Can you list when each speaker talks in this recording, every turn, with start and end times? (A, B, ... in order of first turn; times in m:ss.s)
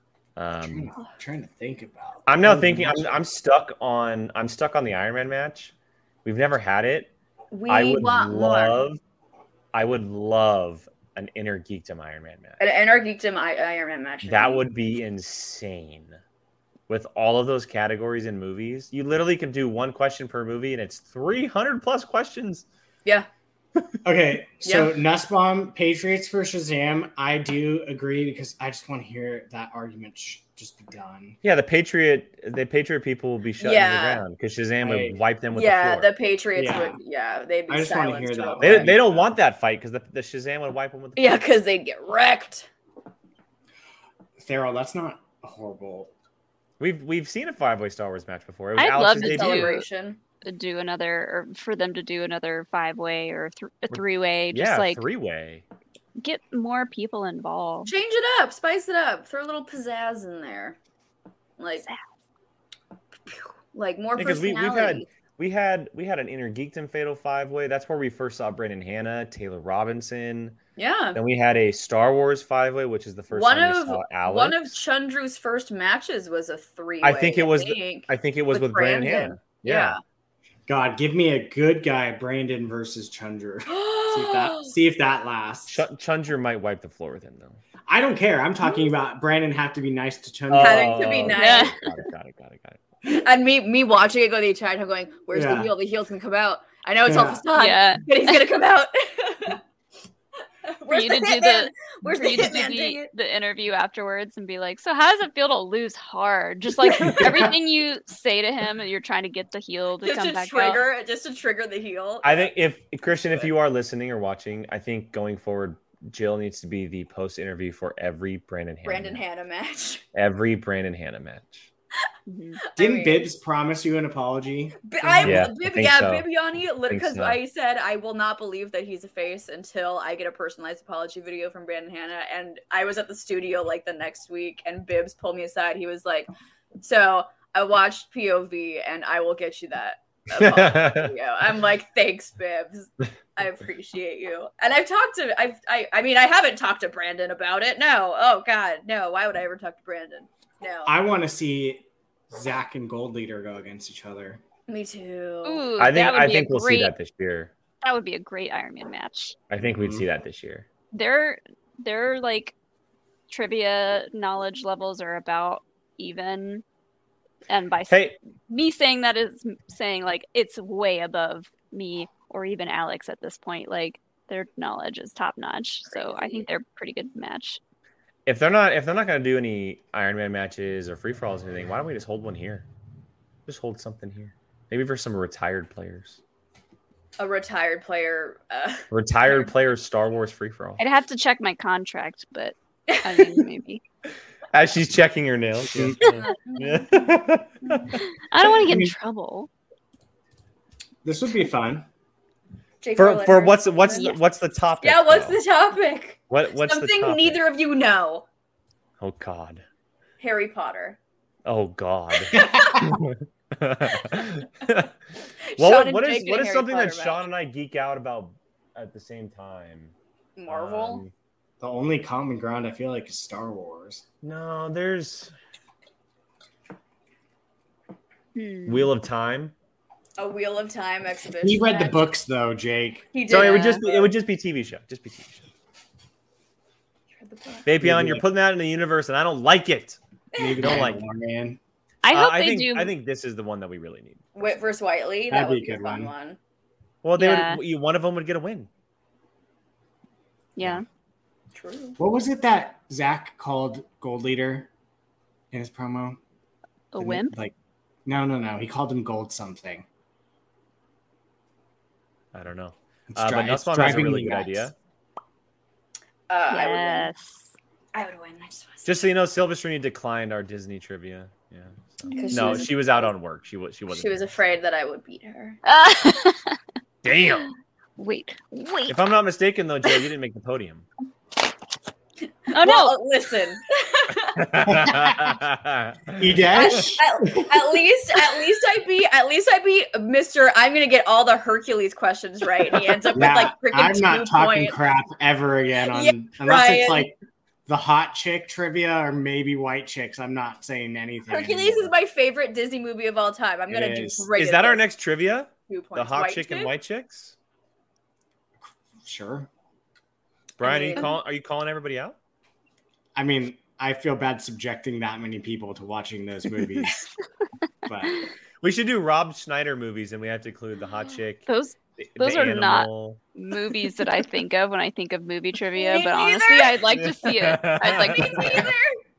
0:00.4-0:00.9 A
0:00.6-0:03.2 B
0:02.3-0:05.7 A
0:06.2-0:07.1 A
0:07.5-0:08.8 C
0:07.7-0:09.0 A
0:09.7-0:12.6 A
0:12.6-0:14.6 C
0:14.2-0:16.2 A
0:16.9-0:22.6 A
0:24.0-0:31.4 B
0:24.6-0:25.0 C
0:31.4-0:36.1 A
0:33.6-0:34.2 C
0:34.8-0:35.2 B
0:35.5-0:39.0 C
0:36.5-0:37.0 B
0:37.7-0:39.3 B
0:38.6-0:41.4 A
0:41.2-0:42.7 C
0:44.4-0:46.1 B
0:46.8-0:49.8 A
0:48.8-0:49.8 D
0:49.1-0:50.2 C
0:50.4-0:55.0 D
0:54.5-0:55.6 A
0:56.2-0:57.9 D
0:57.8-1:00.8 C
1:01.6-1:01.8 C
1:03.3-1:05.0 C
1:04.2-1:10.6 A
1:10.8-1:11.2 C
1:11.1-1:14.8 A
1:13.3-1:20.0 C
1:17.0-1:20.0 A
1:20.7-1:25.8 B
1:23.7-1:24.7 C
1:25.7-1:27.6 A
1:27.9-1:31.3 B
1:30.5-1:32.8 A
1:30.6-1:31.8 C
1:31.3-1:31.8 D
1:33.0-1:39.6 C
1:35.3-1:35.7 B
1:37.0-1:37.4 B
1:37.5-1:38.3 D
1:40.6-1:43.0 C
1:40.9-1:50.8 D
1:50.0-1:52.5 C
1:52.2-1:59.2 A
1:58.8-2:00.0 C
2:00.1-2:01.7 A
2:02.3-2:02.6 D
2:02.7-2:03.3 C
2:02.8-2:05.5 B
2:04.8-2:16.3 C
2:05.2-2:06.3 A
2:06.9-2:07.4 A
2:16.8-2:31.0 C
2:20.4-2:21.1 A
2:30.8-2:34.4 B
2:34.7-2:35.7 C
2:35.4-2:36.9 D
2:35.8-2:37.5 A
2:37.8-2:39.4 D
2:39.5-2:40.6 A
2:39.6-2:40.0 B
2:40.9-2:42.5 D
2:43.3-2:46.6 D
2:47.5-2:57.6 D
2:47.9-2:48.2 A
2:55.9-2:56.4 C
2:58.2-3:02.6 A
3:03.5-3:06.2 A
3:07.2-3:09.5 C
3:08.9-3:10.8 A
3:10.8-3:13.8 D
3:12.9-3:13.4 C
3:14.5-3:18.0 A
3:15.6-3:16.0 B
3:16.0-3:17.1 C
3:17.6-3:17.9 C
3:18.3-3:19.5 D
3:18.6-3:18.9 B
3:21.0-3:21.8 B
3:22.8-3:24.1 C
3:23.0-3:25.4 A
3:23.9-3:24.2 D
3:24.8-3:28.2 C
3:26.3-3:27.4 A
3:29.0-3:29.6 A
3:30.2-3:31.0 C
3:31.4-3:34.9 A
3:32.3-3:32.9 C
3:35.5-3:37.2 C
3:35.6-3:39.9 A
3:40.4-3:41.0 C
3:40.5-3:41.1 A
3:41.6-3:44.0 B
3:44.2-3:45.3 A
3:48.3-3:48.9 D
3:48.7-3:49.5 A
3:50.2-3:52.1 C
3:51.4-3:53.1 B
3:53.1-3:54.1 C
3:53.2-3:55.5 A
3:53.3-3:53.8 D
3:57.2-3:57.7 C
3:57.6-4:00.0 A
3:57.8-3:58.2 B
4:00.4-4:00.8 C
4:00.4-4:01.6 B
4:00.6-4:01.0 A
4:02.0-4:02.9 D
4:02.1-4:04.3 A
4:04.4-4:06.4 C
4:05.3-4:06.1 B
4:07.0-4:08.7 A
4:07.2-4:07.6 D
4:10.6-4:10.8 D
4:11.5-4:12.0 C
4:12.0-4:14.7 B
4:15.5-4:16.2 B
4:16.9-4:17.3 D
4:17.0-4:17.5 B
4:18.0-4:19.8 B
4:22.3-4:24.7 A
4:23.1-4:24.7 B
4:26.3-4:27.1 C
4:26.5-4:27.5 D
4:27.9-4:29.1 C
4:28.8-4:34.3 A
4:32.1-4:32.7 D
4:32.1-4:33.1 C
4:33.9-4:35.6 C
4:35.6-4:36.6 D
4:37.0-4:37.5 A
4:38.0-4:39.0 D
4:38.9-4:40.8 A
4:42.5-4:44.5 C
4:42.5-4:43.0 D
4:44.3-4:46.8 A
4:44.6-4:45.4 B
4:46.2-4:47.6 B
4:46.5-4:54.8 C
4:53.1-4:57.1 B
4:55.9-4:57.1 C
4:57.7-5:01.9 B
5:01.3-5:04.8 C
5:03.7-5:04.3 B
5:04.3-5:07.3 A
5:05.7-5:06.7 C
5:08.6-5:09.5 B
5:10.6-5:12.2 A
5:10.6-5:11.2 C
5:13.1-5:17.0 B
5:17.8-5:18.2 B
5:18.6-5:21.5 A
5:21.5-5:28.7 D
5:22.0-5:23.2 A
5:25.7-5:27.0 C
5:26.9-5:28.7 A
5:27.8-5:29.0 C